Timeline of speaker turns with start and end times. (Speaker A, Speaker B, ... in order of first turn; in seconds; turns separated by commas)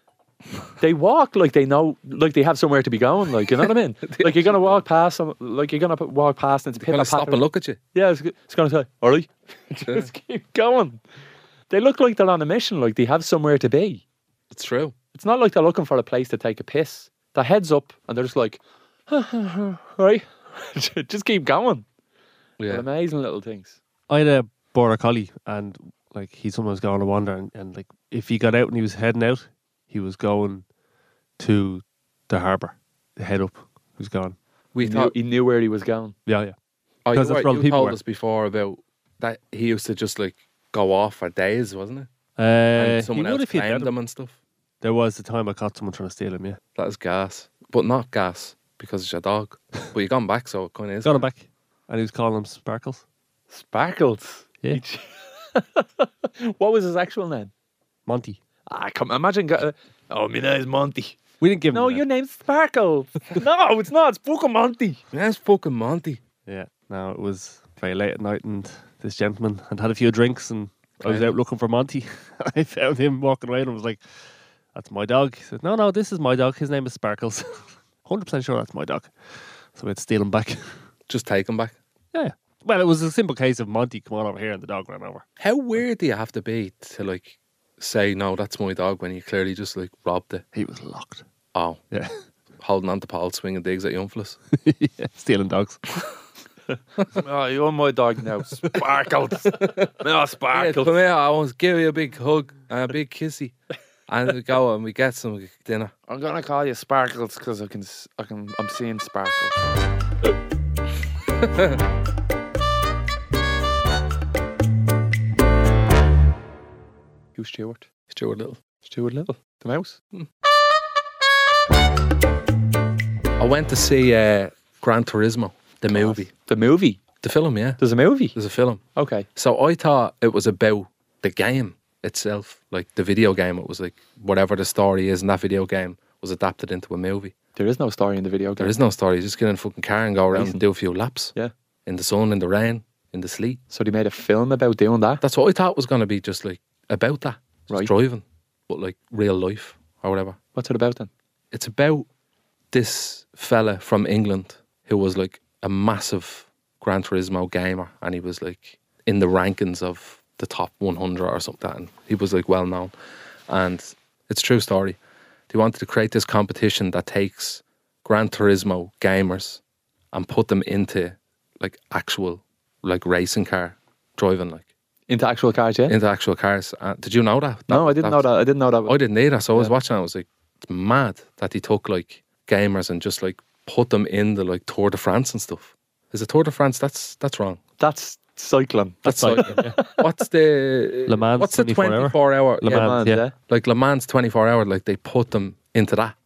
Speaker A: 0.8-7.4, Speaker B: 4.0-4.6, Speaker B: 6.8-7.8, Speaker A: 7.9-11.0, Speaker A: 11.7-14.0, Speaker B: 14.5-14.9, Speaker A: 15.1-21.8, Speaker B: 22.6-22.9, Speaker A: 22.7-23.8, Speaker C: 24.1-30.6, Speaker C: 31.4-34.4, Speaker B: 34.7-35.1, Speaker A: 34.8-36.1, Speaker C: 36.2-36.5, Speaker B: 37.0-42.1, Speaker C: 37.1-38.0, Speaker C: 42.4-43.9, Speaker B: 42.7-44.4, Speaker C: 44.8-46.6, Speaker B: 46.8-51.2, Speaker C: 51.0-53.0, Speaker A: 53.5-57.5, Speaker C: 58.0-58.4, Speaker A: 58.7-61.2, Speaker C: 61.4-62.0, Speaker A: 61.7-65.0, Speaker B: 65.1-66.2, Speaker C: 66.5-74.0, Speaker B: 71.0-71.3, Speaker C: 74.7-80.8, Speaker B: 81.1-81.8, Speaker C: 82.1-85.2, Speaker B: 85.4-90.4, Speaker C: 90.5-91.2, Speaker B: 91.5-91.8, Speaker C: 91.9-92.2, Speaker B: 92.6-94.4, Speaker C: 94.5-95.9, Speaker A: 97.1-100.9, Speaker B: 99.5-99.9, Speaker B: 100.5-103.5, Speaker B: 104.1-105.9, Speaker A: 106.1-109.8, Speaker B: 111.4-111.8, Speaker A: 117.3-117.9, Speaker B: 118.1-118.6, Speaker A: 118.8-120.0, Speaker B: 123.4-126.3, Speaker A: 125.9-127.0, Speaker B: 127.2-127.8, Speaker A: 127.8-128.3, Speaker B: 128.3-128.8, Speaker A: 128.9-129.2, Speaker B: 129.3-137.3, Speaker A: 137.6-138.7, Speaker B: 138.6-141.3, Speaker A: 140.3-140.6, Speaker B: 141.8-143.6, Speaker A: 143.7-145.2, Speaker B: 145.2-150.4, Speaker A: 150.5-151.1, Speaker B: 151.5-152.1, Speaker B: 152.7-162.9, Speaker B: 163.5-165.0, Speaker B: 165.5-169.6, Speaker B: 170.1-174.7, Speaker A: 175.1-175.9, Speaker B: 175.9-178.3, Speaker A: 177.7-178.9, Speaker B: 178.8-187.6, Speaker A: 187.8-190.1, Speaker C: 189.0-189.8, Speaker B: 189.0-196.1, Speaker C: 191.1-193.2, Speaker A: 192.6-193.3